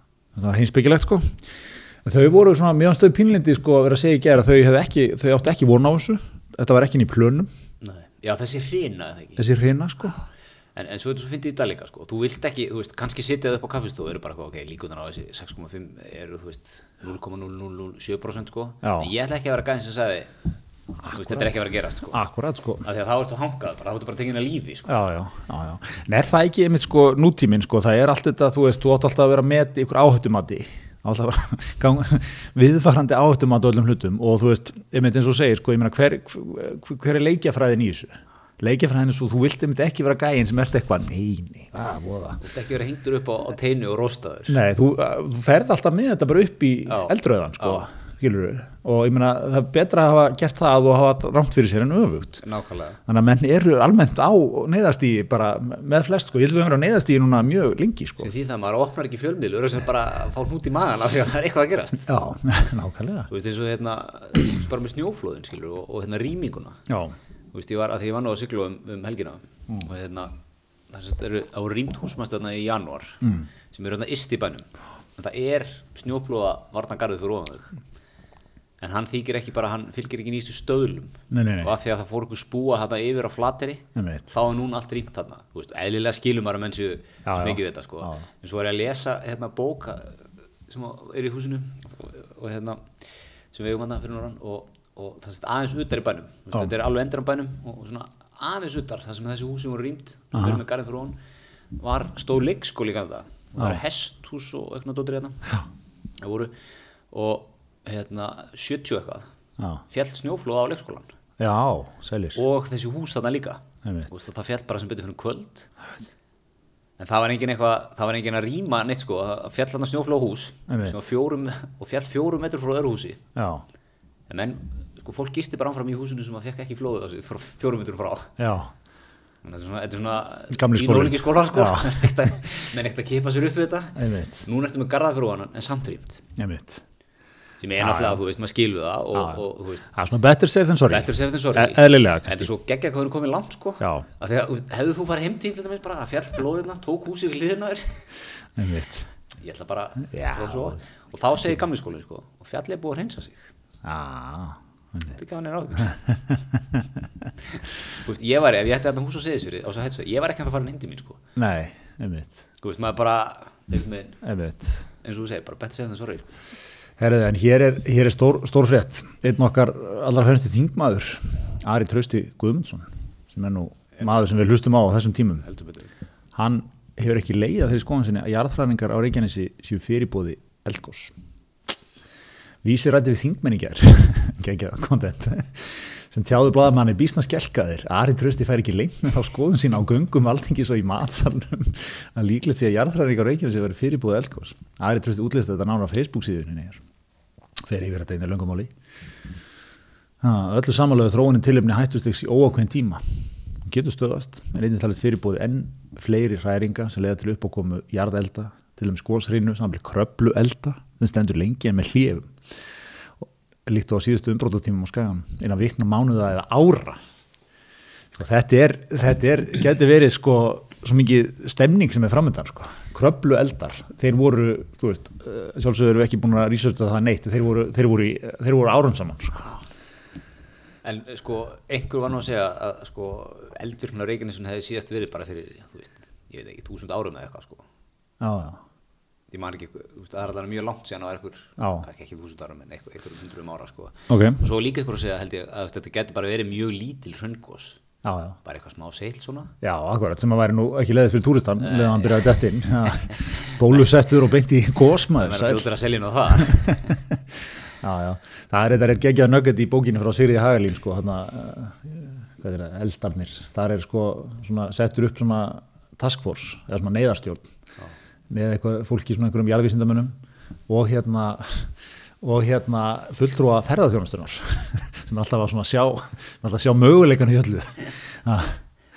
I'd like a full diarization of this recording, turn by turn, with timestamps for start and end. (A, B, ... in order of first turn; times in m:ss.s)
0:00.3-0:01.4 A
0:02.0-0:07.5 A
0:07.8-0:09.4 B
0:09.4-0:10.2 A
0:10.8-0:20.3 B
0:18.8-0:19.1 A
0:21.0-0:22.8 A
0:21.1-0:22.2 B
0:22.8-0:24.9 B
0:24.9-0:42.4 A
0:42.4-0:44.6 B
0:44.5-0:52.4 A
0:46.9-0:47.8 B
0:52.4-0:53.0 B
0:53.0-0:58.3 A
0:58.2-1:02.1 B
1:02.1-1:03.3 A
1:03.3-1:06.8 B
1:06.9-1:07.1 A
1:07.5-1:10.3 B
1:10.9-1:17.8 B
1:18.8-1:32.9 B
1:21.3-1:21.7 A
1:24.0-1:24.3 A
1:27.2-1:28.2 A
1:33.5-1:41.2 B
1:40.3-1:40.6 A
1:41.8-1:45.6 B
1:46.2-1:46.5 B
1:47.1-1:49.3 B
1:49.9-1:51.1 B
1:51.4-1:52.4 A
1:52.3-1:55.7 B
1:53.8-1:54.1 A
1:57.0-2:03.2 B
2:00.7-2:01.0 A
2:03.4-2:03.6 A
2:04.3-2:08.3 B
2:08.4-2:08.7 A
2:09.4-2:16.2 B
2:10.5-2:12.1 A
2:14.0-2:14.4 A
2:16.4-2:16.8 A
2:17.6-2:19.9 B
2:17.8-2:18.2 A
2:19.1-2:22.5 A
2:20.9-2:28.0 B
2:23.8-2:24.0 A
2:28.6-2:29.1 A
2:29.4-2:33.5 B
2:30.1-2:30.8 A
2:33.8-2:35.1 A
2:35.1-2:36.0 B
2:35.8-2:36.9 A
2:37.9-2:41.2 B
2:41.4-2:42.4 A
2:42.6-2:44.2 B
2:44.2-2:44.8 A
2:45.0-2:46.3 B
2:47.0-2:55.4 A
2:55.4-2:55.9 B
2:56.3-3:01.1 A
3:02.6-3:16.8 A
3:17.6-3:18.7 A
3:20.2-3:23.0 A
3:23.6-3:32.3 A
3:33.2-3:37.0 A
3:38.2-3:49.4 A
3:50.8-3:57.6 B
3:58.2-3:58.6 A
3:59.3-4:07.8 B
4:01.6-4:01.8 A
4:04.1-4:04.4 A
4:08.0-4:08.4 A
4:08.4-4:09.5 B
4:09.6-4:15.7 A
4:11.6-4:12.3 B
4:15.2-4:17.0 B
4:16.4-4:17.2 A
4:17.8-4:27.5 A
4:28.3-4:30.1 A
4:30.7-4:31.7 A
4:32.2-4:38.6 A